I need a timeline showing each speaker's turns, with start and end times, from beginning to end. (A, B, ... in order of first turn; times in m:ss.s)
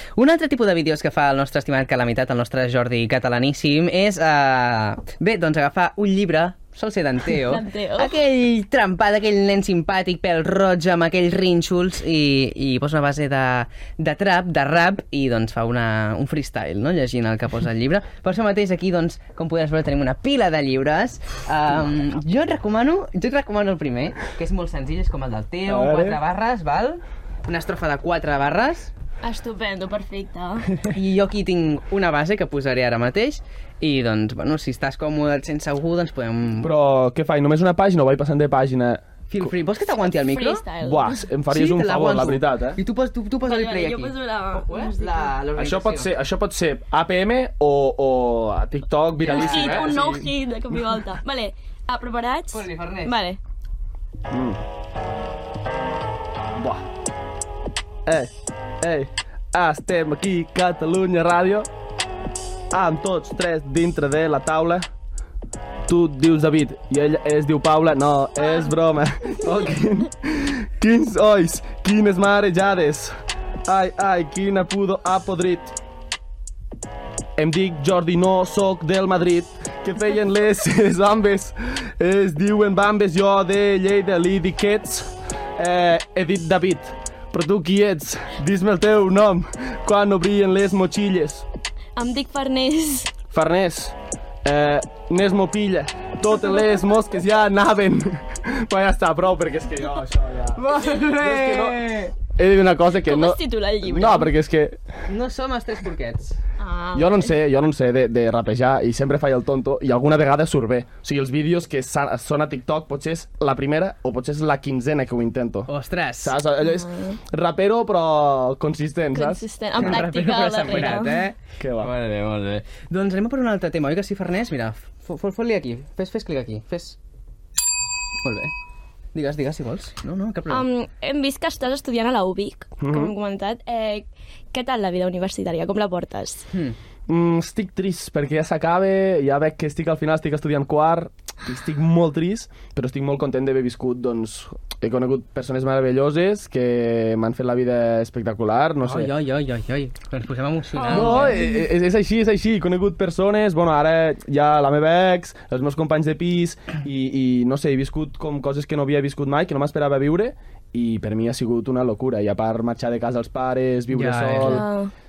0:00.2-0:28.9 A
0:07.4-0:08.2 B
0:25.7-0:26.2 C
0:29.2-0:30.7 B
0:30.8-0:36.7 A
0:36.6-0:39.5 C
0:39.3-0:40.6 A
0:40.1-0:41.3 B
0:40.8-0:42.8 C
0:41.5-0:46.1 A
0:43.4-0:45.4 B
0:45.6-0:50.2 C
0:49.2-0:50.2 A
0:49.2-0:53.4 B
0:52.5-0:53.1 A
0:54.3-0:54.6 C
0:56.6-0:56.9 C
0:58.1-1:01.7 C
1:02.7-1:04.9 C
1:05.9-1:13.1 C
1:13.7-1:15.7 C
1:17.4-1:31.5 C
1:32.0-1:33.2 B
1:33.3-1:44.8 C
1:40.6-1:42.1 A
1:43.0-1:44.3 B
1:45.1-1:46.4 A
1:46.6-1:47.4 B
1:46.9-1:55.7 C
1:55.7-1:56.4 A
1:56.2-1:59.4 C
1:56.6-1:57.2 B
1:59.1-2:01.3 B
1:59.8-2:07.0 A
2:01.6-2:01.9 C
2:08.2-2:08.5 A
2:09.1-2:10.7 A
2:10.5-2:16.5 B
2:12.8-2:13.1 C
2:16.5-2:16.8 A
2:17.1-2:29.1 C
2:28.8-2:31.4 A
2:30.8-2:31.7 B
2:30.9-2:44.7 C
2:43.9-2:44.6 A
2:44.4-2:44.9 B